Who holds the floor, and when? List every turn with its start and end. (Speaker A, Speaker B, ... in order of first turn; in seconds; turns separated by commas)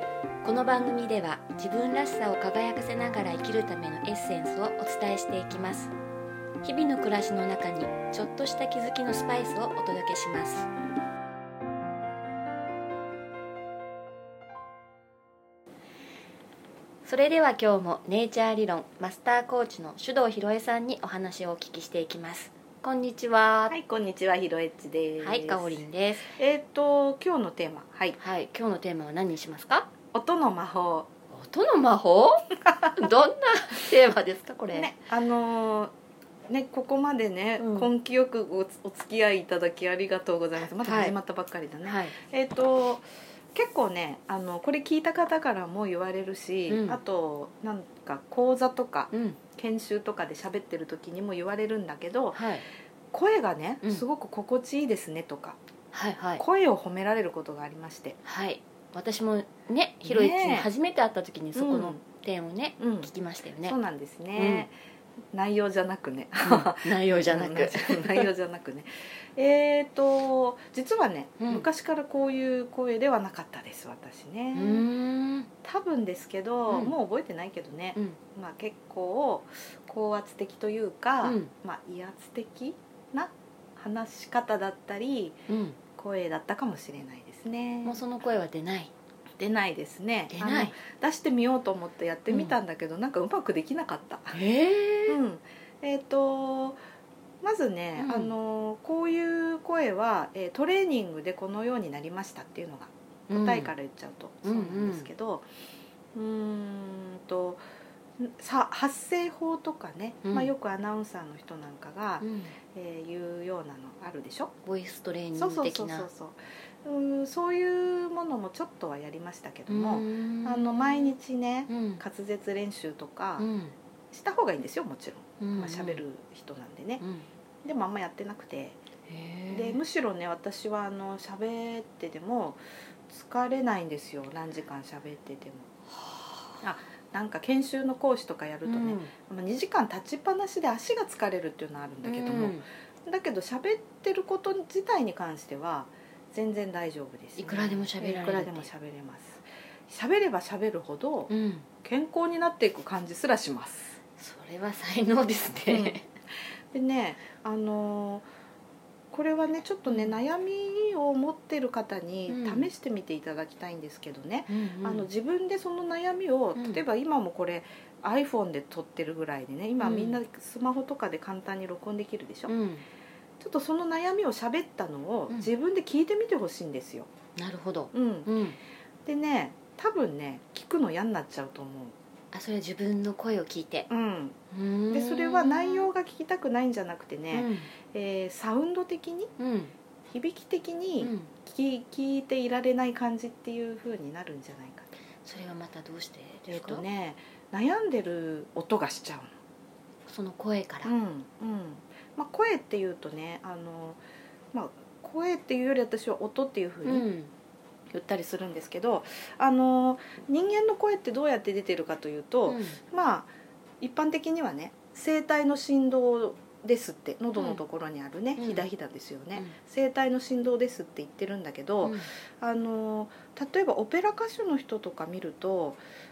Speaker A: 0.4-5.9, Speaker A: 6.6-10.7, Speaker A: 17.0-23.8, Speaker B: 23.7-28.2, Speaker A: 25.2-26.3, Speaker A: 28.2-29.9, Speaker B: 30.1-31.1, Speaker A: 31.3-34.9, Speaker B: 34.7-35.9, Speaker B: 36.5-52.4, Speaker A: 37.6-37.9, Speaker A: 40.7-41.1, Speaker A: 41.8-42.2, Speaker A: 46.7-47.0, Speaker A: 49.1-49.4, Speaker A: 52.3-52.6, Speaker B: 53.1-55.6, Speaker A: 55.9-56.4, Speaker B: 56.4-58.2, Speaker A: 58.2-63.8, Speaker B: 60.0-60.7, Speaker B: 61.5-62.0, Speaker B: 62.8-63.1, Speaker B: 63.6-64.7, Speaker A: 64.3-64.7, Speaker B: 65.3-74.9, Speaker A: 66.4-68.3, Speaker A: 71.4-71.7, Speaker A: 74.5-75.5, Speaker B: 75.6-88.0, Speaker A: 76.7-76.9, Speaker A: 81.2-81.5, Speaker A: 85.5-85.8, Speaker A: 87.8-88.9, Speaker B: 89.4-94.4, Speaker A: 90.3-90.7, Speaker A: 92.3-92.5, Speaker A: 94.3-95.2, Speaker B: 95.1-96.8, Speaker B: 97.4-105.5, Speaker A: 98.0-98.3, Speaker A: 103.3-103.7, Speaker A: 104.4-105.1, Speaker B: 106.1-107.6, Speaker B: 108.2-114.5, Speaker A: 110.2-110.5, Speaker A: 112.2-112.5, Speaker A: 114.6-116.1, Speaker B: 115.3-123.5, Speaker A: 119.7-121.2, Speaker A: 121.7-122.0, Speaker A: 123.4-123.7, Speaker B: 124.1-127.0, Speaker A: 125.4-126.0, Speaker A: 127.0-127.3, Speaker B: 127.6-128.8, Speaker A: 129.1-129.8, Speaker B: 129.5-135.7, Speaker A: 136.0-136.4, Speaker B: 136.6-154.0, Speaker A: 138.6-139.1, Speaker A: 142.0-142.6, Speaker A: 147.4-148.7, Speaker A: 151.3-151.7, Speaker A: 154.2-156.0, Speaker B: 155.7-156.0, Speaker B: 156.7-158.3, Speaker B: 159.1-172.5, Speaker A: 159.9-160.2, Speaker A: 162.3-162.7, Speaker A: 164.5-165.1, Speaker A: 166.6-166.8, Speaker A: 169.8-170.2, Speaker A: 172.5-172.8, Speaker B: 173.4-177.1, Speaker A: 177.3-178.6, Speaker B: 177.9-178.3, Speaker B: 179.0-181.9, Speaker A: 182.3-183.9, Speaker B: 183.9-184.3, Speaker A: 184.5-185.9, Speaker B: 184.9-189.3, Speaker A: 187.3-187.7, Speaker A: 189.4-189.7, Speaker B: 190.1-194.9, Speaker A: 191.0-191.3, Speaker A: 195.2-196.8, Speaker B: 196.5-199.3, Speaker A: 200.1-200.9, Speaker B: 200.8-204.0, Speaker B: 204.5-207.1, Speaker A: 206.8-207.3, Speaker B: 207.9-225.8, Speaker A: 212.4-212.8, Speaker A: 217.3-217.6, Speaker A: 218.4-218.7, Speaker A: 221.8-222.1